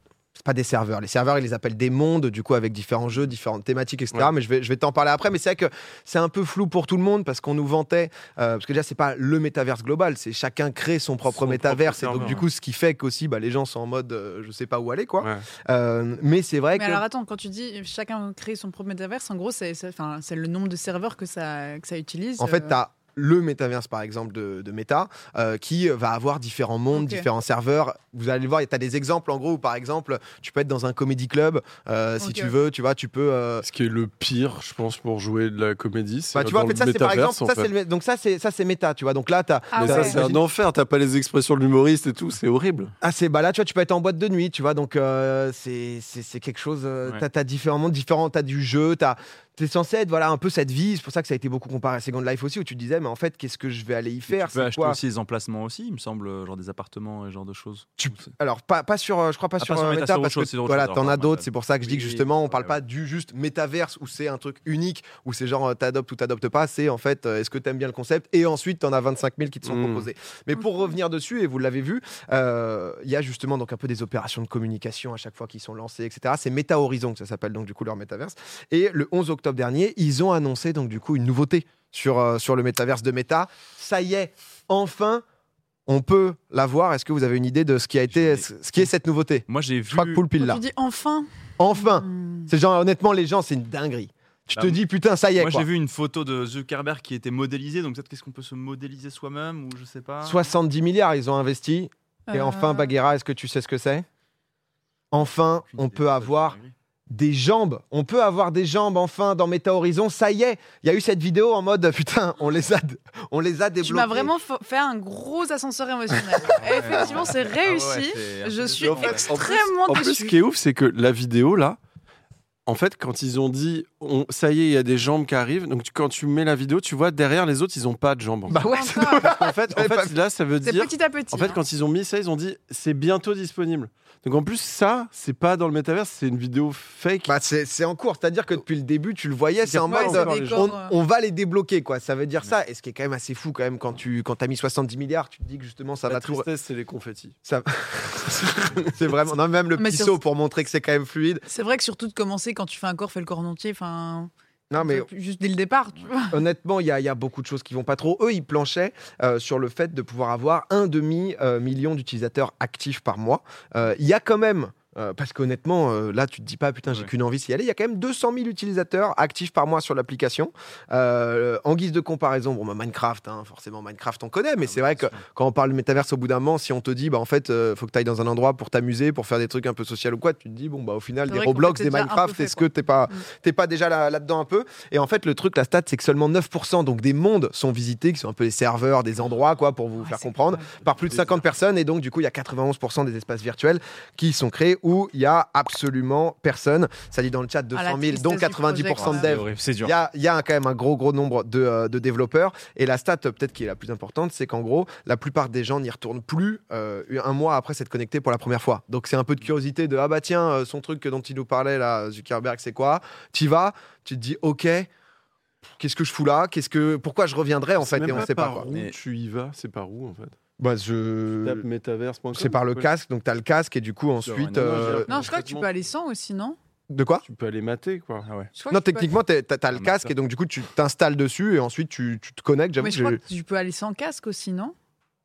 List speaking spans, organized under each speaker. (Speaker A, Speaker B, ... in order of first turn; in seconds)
Speaker A: 0.4-17.0, 22.4-33.7, 36.3-40.4, 43.0-55.0, 58.0-85.2, 85.9-90.6, 91.6-95.7, 100.2-104.0, 105.1-106.6, 107.1-114.3, 128.5-130.1, 137.3-146.5, 147.4-151.4, 154.7-155.1, 156.3-214.9, 215.8-218.7, 220.6-221.6, 222.3-225.1, 226.9-227.2, 228.7-233.2
Speaker B: 11.3-12.5, 15.2-15.5, 33.6-37.7, 39.8-42.9, 69.6-70.1, 118.9-121.8, 122.7-128.7, 129.2-137.3, 139.6-140.7, 146.1-147.3, 191.1-191.4, 217.8-220.3, 221.4-222.9, 224.6-225.8, 227.2-228.3
Speaker C: 16.8-22.8, 26.9-27.3, 32.2-32.5, 39.7-40.2, 90.4-92.5, 102.3-102.9, 113.8-120.4, 128.5-129.3, 130.6-131.6, 139.9-140.9, 149.8-150.2, 151.5-156.4, 181.3-183.2, 190.0-190.6, 197.7-199.3, 225.1-226.6, 228.6-229.1, 232.8-234.7
Speaker D: 54.3-58.3, 59.6-62.8, 88.1-88.9, 89.5-90.2, 95.4-100.5, 105.7-106.7, 116.4-119.4, 174.6-175.2, 199.0-199.9, 218.1-219.0, 224.2-225.0, 228.2-228.5, 229.7-230.1